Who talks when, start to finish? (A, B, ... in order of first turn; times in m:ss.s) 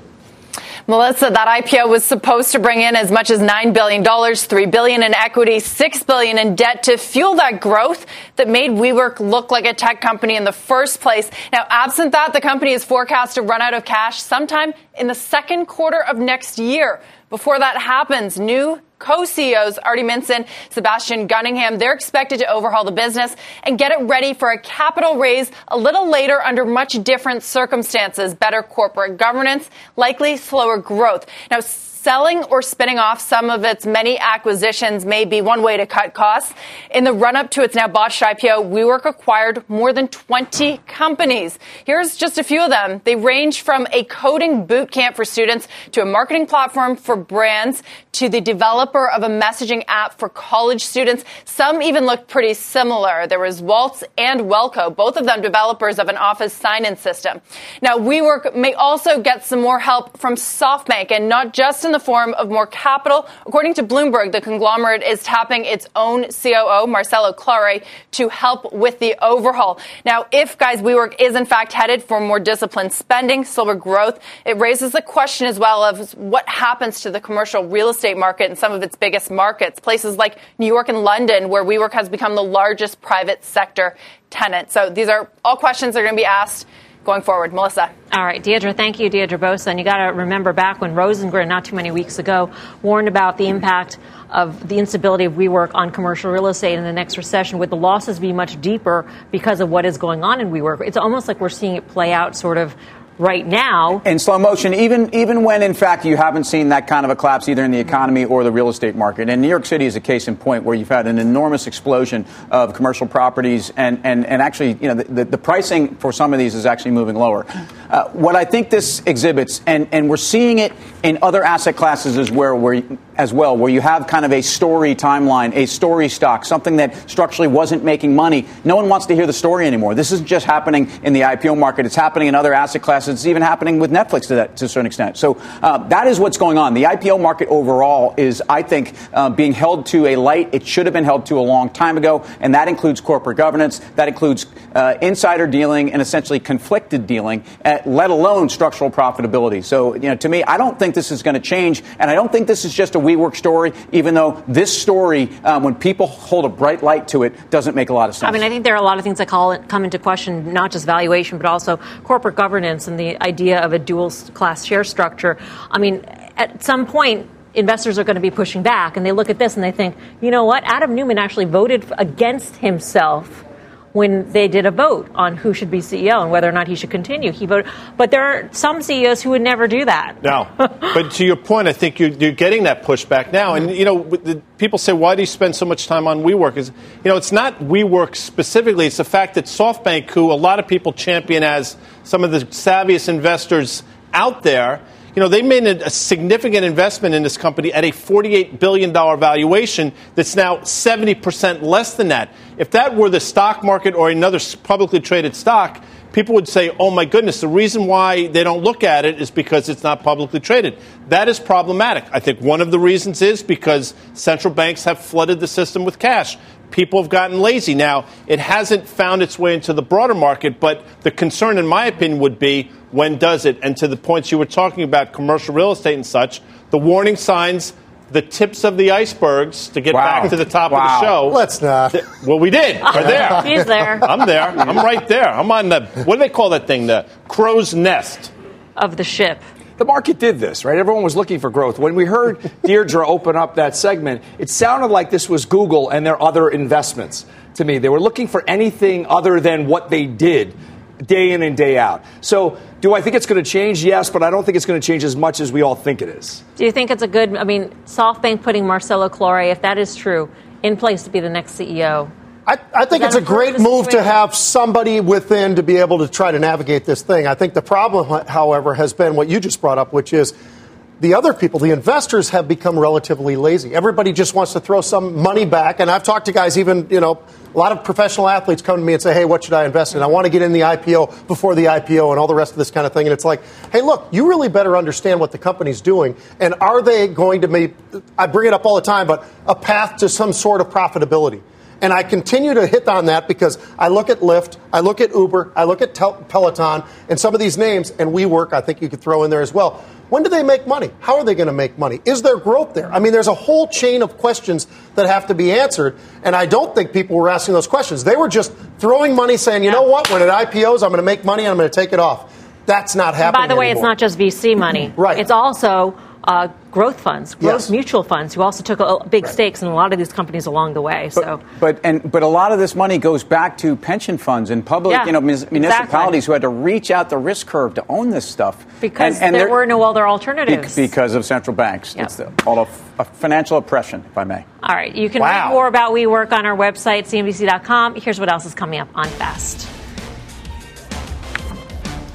0:00.9-1:27.9 A
1:28.1-1:44.0 B
1:44.0-2:38.4 C
2:38.2-2:53.4 B
2:53.9-3:00.9 B
3:00.2-3:51.4 D
3:49.9-3:51.2 C
3:51.3-3:52.1 E
3:51.9-3:53.5 D
3:52.8-3:54.1 B
3:54.0-3:58.3 D
3:58.8-3:59.4 B
3:59.8-4:16.4 F
4:16.6-4:22.1 B
4:22.4-4:30.4 E
4:22.9-4:24.1 B
4:31.0-5:13.9 E
5:13.2-5:21.4 B
5:14.9-5:15.2 E
5:17.4-5:17.7 E
5:21.2-5:29.6 C
5:24.9-5:26.2 B
5:28.8-5:30.9 B
5:30.5-5:34.4 C
5:34.6-5:39.7 B
5:35.2-5:35.6 E